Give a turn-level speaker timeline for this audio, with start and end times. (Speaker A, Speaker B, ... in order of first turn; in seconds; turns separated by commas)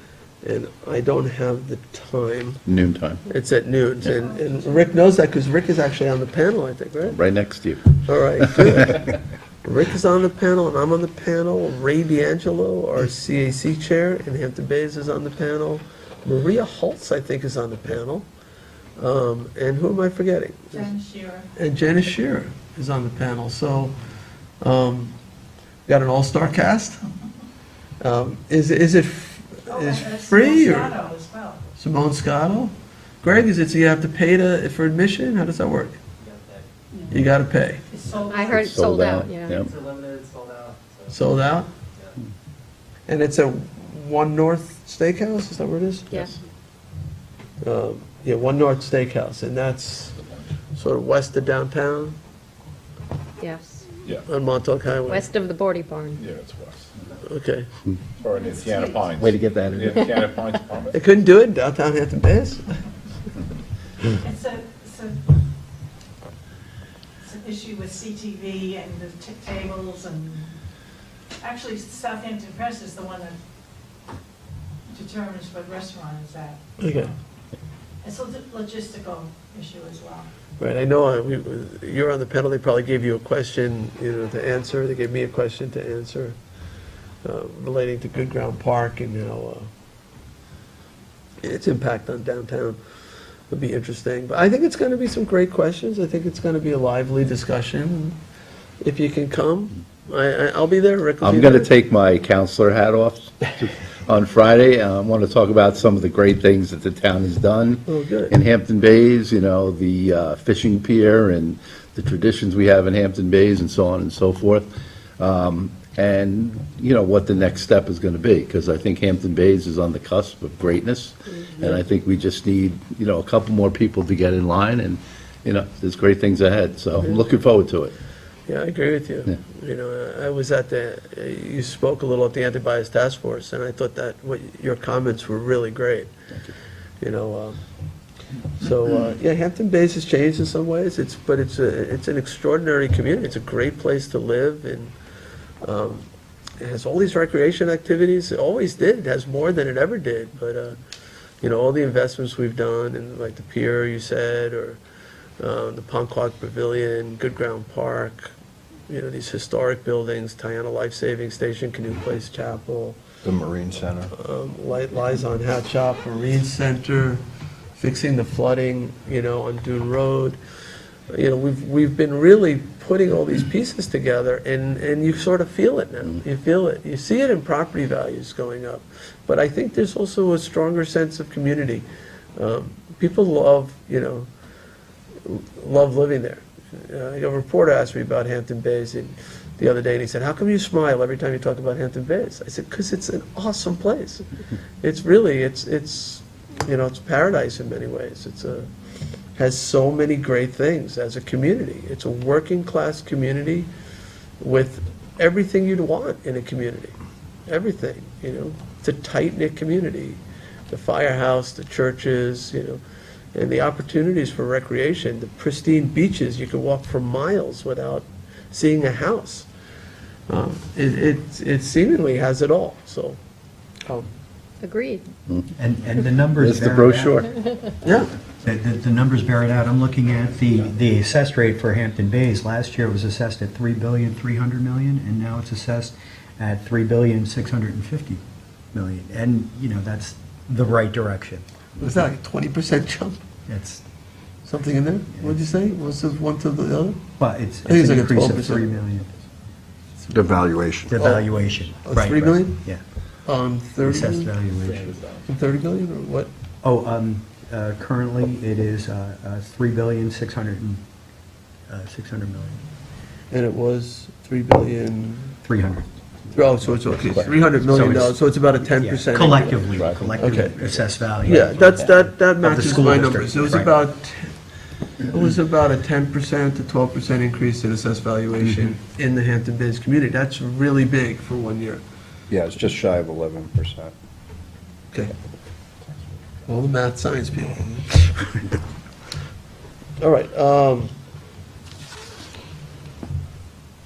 Speaker A: 0.4-2.6, Speaker B: 2.7-3.2, Speaker A: 3.3-7.2, Speaker C: 4.1-5.1, Speaker B: 7.1-8.8, Speaker A: 7.9-18.3, Speaker A: 19.0-20.9, Speaker C: 20.7-21.5, Speaker A: 21.6-23.9, Speaker A: 24.6-25.1, Speaker A: 25.9-27.0, Speaker A: 28.0-31.0, Speaker C: 29.7-31.6, Speaker A: 31.8-36.0, Speaker D: 36.2-36.6, Speaker A: 37.1-37.8, Speaker C: 37.9-38.8, Speaker E: 38.3-39.6, Speaker B: 38.6-39.7, Speaker D: 39.6-41.3, Speaker A: 41.1-41.7, Speaker A: 43.1-46.3, Speaker A: 47.6-50.1, Speaker A: 50.8-52.2, Speaker E: 53.4-53.8, Speaker A: 54.3-55.3, Speaker E: 55.1-56.2, Speaker F: 56.2-56.9, Speaker A: 57.2-57.7, Speaker F: 58.2-61.0, Speaker C: 58.2-59.2, Speaker B: 59.2-60.2, Speaker A: 60.9-62.7, Speaker C: 64.2-65.2, Speaker C: 67.2-70.5, Speaker C: 71.4-73.4, Speaker C: 74.9-77.1, Speaker A: 76.8-77.1, Speaker C: 78.0-80.3, Speaker A: 80.6-86.4, Speaker A: 87.2-89.7, Speaker A: 91.4-92.8, Speaker A: 93.5-98.2, Speaker A: 98.8-101.7, Speaker B: 101.2-114.7, Speaker A: 107.9-108.3, Speaker B: 115.2-127.9, Speaker A: 128.5-136.1, Speaker A: 137.0-137.6, Speaker A: 138.6-144.9, Speaker A: 145.6-146.1, Speaker A: 146.6-150.8, Speaker A: 151.4-154.8, Speaker A: 155.4-158.3, Speaker A: 158.9-163.0, Speaker G: 163.3-164.1, Speaker A: 164.1-167.2, Speaker A: 167.8-170.4, Speaker A: 171.1-184.3, Speaker A: 185.2-194.3, Speaker A: 194.8-198.7, Speaker A: 199.4-203.7, Speaker A: 204.4-207.0, Speaker A: 207.5-212.8, Speaker A: 213.3-219.5, Speaker A: 220.3-223.2, Speaker E: 224.6-225.1, Speaker H: 225.6-227.3, Speaker B: 226.4-227.3, Speaker A: 227.8-228.1, Speaker H: 228.4-238.2, Speaker H: 238.7-241.4, Speaker A: 241.8-243.2, Speaker H: 243.5-243.8, Speaker A: 244.5-247.0, Speaker H: 245.2-245.5, Speaker H: 247.2-249.1, Speaker A: 247.7-248.7, Speaker G: 250.1-251.0, Speaker H: 250.9-252.8, Speaker A: 251.0-251.3, Speaker A: 251.9-252.6, Speaker A: 253.3-254.3, Speaker H: 253.8-254.9, Speaker F: 254.6-255.3, Speaker A: 255.3-256.3, Speaker H: 256.6-260.8, Speaker H: 261.7-262.6, Speaker A: 263.3-265.4, Speaker H: 265.4-266.0, Speaker A: 266.3-270.6, Speaker B: 267.0-267.4, Speaker H: 267.1-273.8, Speaker B: 269.7-270.6, Speaker A: 271.2-274.3, Speaker A: 275.0-281.8, Speaker H: 278.4-278.7, Speaker G: 282.3-283.9, Speaker A: 286.5-287.9, Speaker A: 290.0-290.9